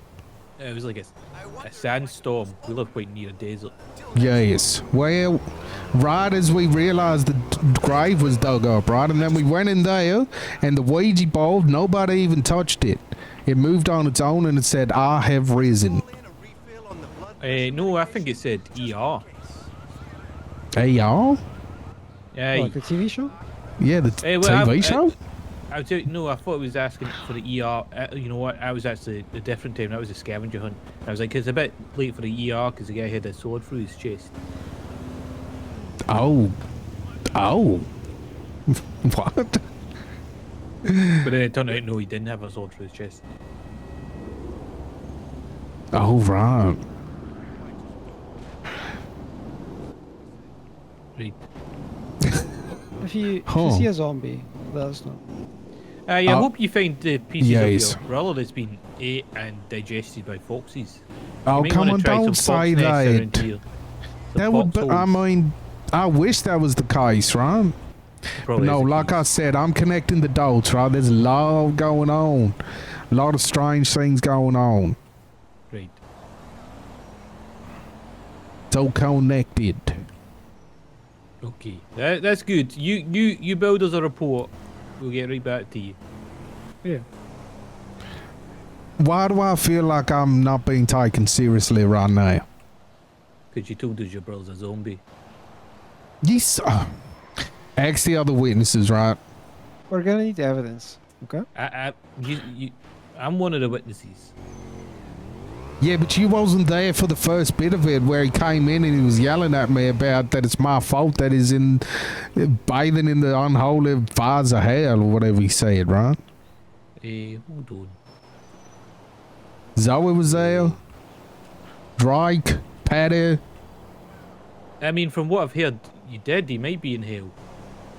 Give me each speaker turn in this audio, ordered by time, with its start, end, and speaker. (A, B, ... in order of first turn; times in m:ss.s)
0:00.6-0:03.8 A
0:04.1-0:16.1 B
0:17.4-0:19.3 A
0:20.8-0:21.4 B
0:22.3-0:22.8 A
0:22.5-0:23.3 C
0:23.8-0:25.1 B
0:24.2-0:25.1 A
0:25.7-0:34.3 A
0:36.1-0:36.6 B
0:37.3-0:37.9 B
0:38.7-0:39.6 B
0:40.8-0:41.3 B
0:41.2-0:43.2 A
0:45.9-0:46.8 B
0:53.0-0:55.2 C
0:53.5-0:53.9 B
0:56.1-1:03.6 A
0:57.4-0:58.0 B
1:01.4-1:03.5 B
1:04.3-1:05.2 A
1:04.4-1:07.7 B
1:08.4-1:09.3 A
1:08.5-1:12.6 B
1:13.1-1:15.0 B
1:15.7-1:16.0 A
1:18.7-1:20.0 B
1:21.4-1:26.0 A
1:29.0-1:32.4 B
1:33.5-1:35.0 A
1:36.2-1:36.9 B
1:37.8-1:39.2 B
1:39.9-1:41.4 C
1:41.5-1:44.3 A
1:45.8-1:56.2 B
1:57.0-1:58.0 A
1:59.8-2:00.8 B
2:00.4-2:00.7 A
2:02.0-2:03.4 B
2:04.8-2:07.3 A